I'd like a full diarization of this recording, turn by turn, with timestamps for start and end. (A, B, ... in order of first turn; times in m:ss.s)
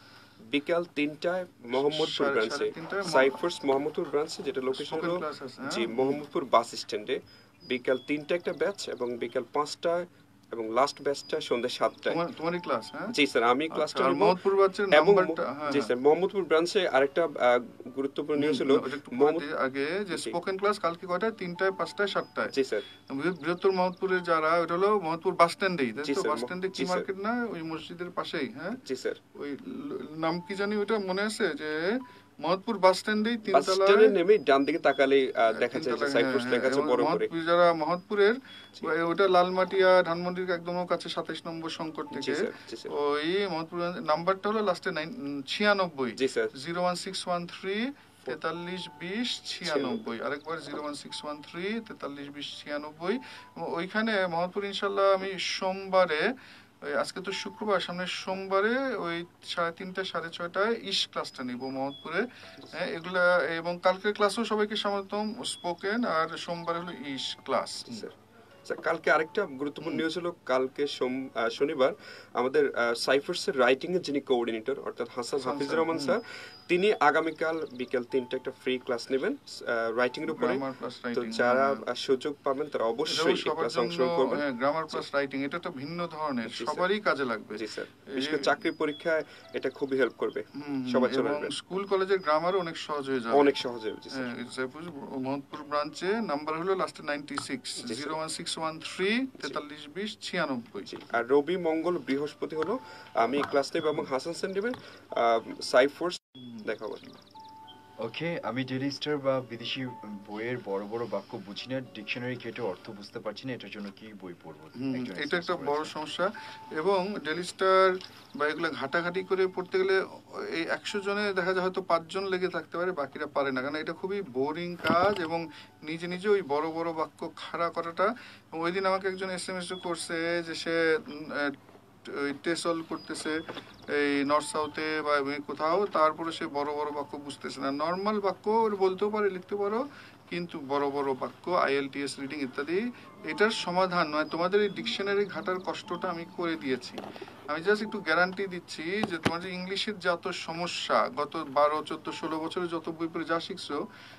0:00.5-0:12.2 A
0:01.7-0:03.4 B
0:04.7-0:06.2 B
0:12.1-0:13.1 B
0:13.1-0:14.4 A
0:13.7-0:15.9 B
0:14.9-0:19.4 A
0:18.4-0:22.5 B
0:22.5-0:22.8 A
0:23.1-0:28.8 B
0:26.0-0:27.0 A
0:28.8-0:29.2 A
0:29.4-0:34.2 B
0:33.5-0:37.3 A
0:35.6-0:56.2 B
0:42.1-0:42.9 A
0:46.2-0:46.5 A
0:49.6-0:50.0 A
0:56.9-1:08.1 B
1:07.9-1:20.6 A
1:15.4-1:16.2 B
1:20.3-1:21.8 B
1:21.1-1:25.0 A
1:23.1-1:28.6 B
1:26.5-1:26.8 A
1:27.5-1:31.5 A
1:30.6-1:33.5 B
1:33.3-1:34.3 A
1:34.1-1:40.9 B
1:37.8-1:38.1 A
1:40.9-1:47.0 A
1:46.6-1:47.1 B
1:48.0-1:55.9 C
1:54.8-2:13.4 B
2:13.9-2:27.0 B
2:27.5-2:33.8 B